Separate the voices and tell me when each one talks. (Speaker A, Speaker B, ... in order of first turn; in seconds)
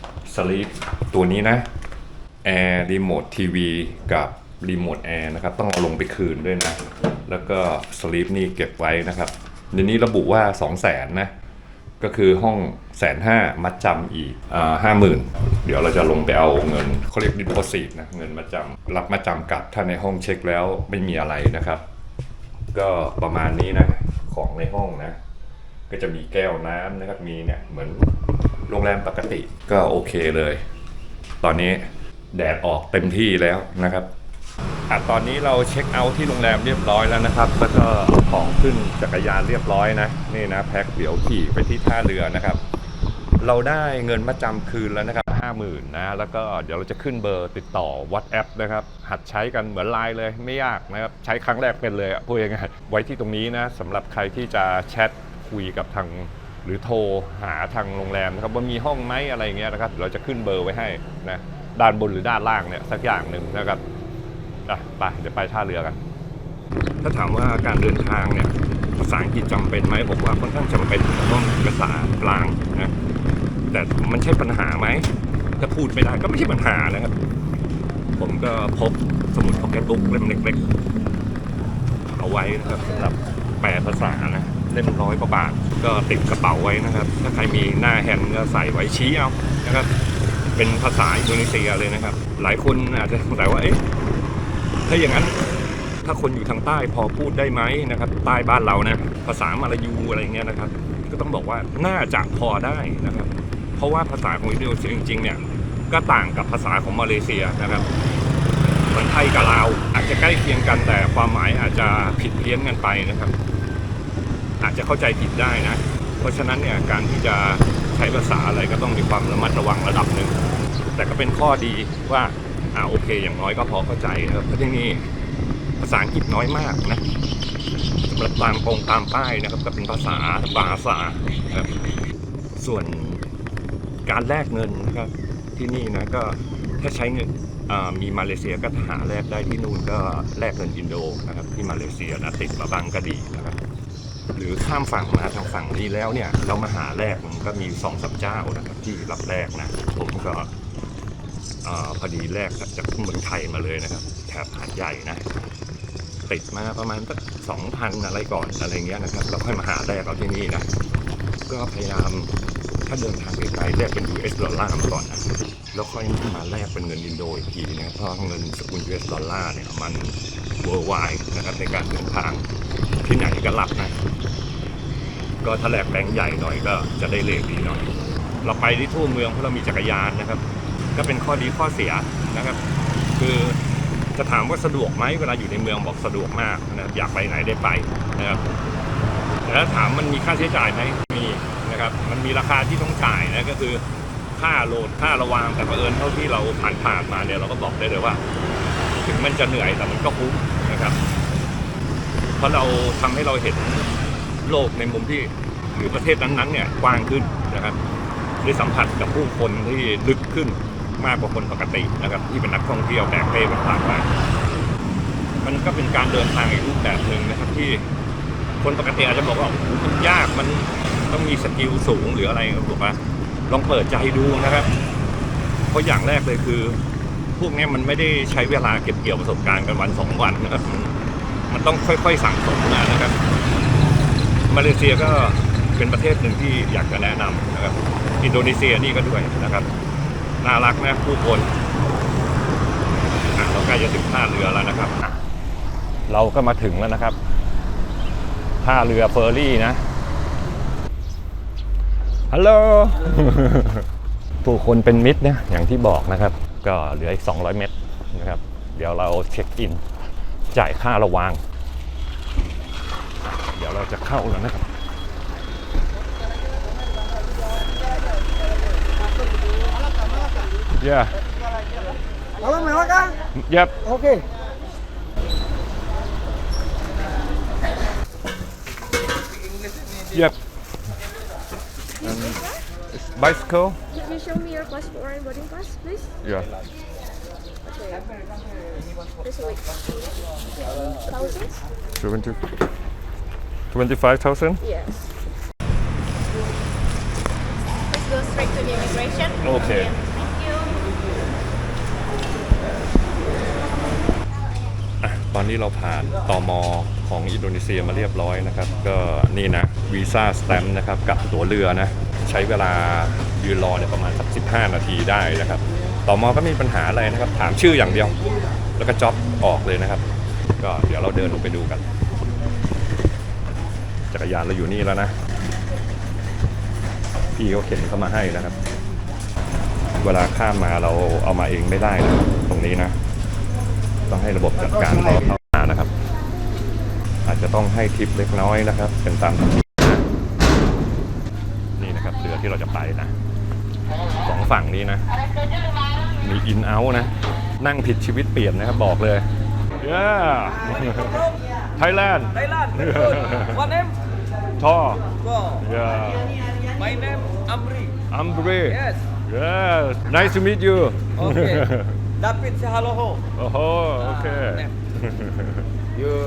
Speaker A: 0.3-1.7, 2.4-11.3, 12.0-21.8, 22.7-25.2, 25.9-28.1, 28.7-30.6, 31.4-34.1, 34.9-42.6, 43.4-63.8, 64.7-66.0, 67.0-72.9, 73.7-77.1, 78.2-80.6, 82.2-89.9, 90.5-93.8, 94.9-95.4, 96.0-107.9, 108.9-113.3, 114.6-120.4, 121.0-125.1, 125.8-127.0, 128.0-131.8, 132.6-133.2, 134.1-143.6, 144.3-150.5, 151.6-155.2, 156.3-160.7, 161.5-172.5, 173.0-174.0, 175.4-177.9, 178.4-180.4, 180.9-182.6, 183.2-183.6, 184.2-188.4, 189.4-193.8, 194.3-198.2, 198.9-201.0, 202.4-203.9, 204.4-207.8, 208.4-214.1, 215.4-217.9, 218.6-224.7, 225.7-226.8, 227.4-230.9, 231.5-233.2, 234.5-239.7, 240.4-241.5, 243.3-245.2, 246.1-247.2, 248.6-249.8, 252.3-253.9, 254.4-259.8, 260.5-261.4, 263.6-264.6, 270.8-271.2, 272.6-274.2, 282.0-282.4, 282.9-283.8, 286.2-286.5, 292.0-292.5, 293.7-294.6, 299.4-300.0, 305.0-318.2, 318.8-320.1, 320.6-321.8, 324.1-325.2, 327.4-328.6, 330.0-333.0, 334.1-335.9, 337.2-340.0, 341.8-343.1, 344.2-345.1, 346.2-349.2, 349.8-353.7, 354.6-356.3, 358.1-362.0, 363.3-365.6
Speaker B: 282.2-282.6, 283.9-286.2, 287.7-288.1, 289.2-289.9, 290.8-291.6, 294.6-295.0, 297.9-299.4, 300.2-300.6
Speaker C: 352.9-353.3, 356.8-357.9, 362.3-363.1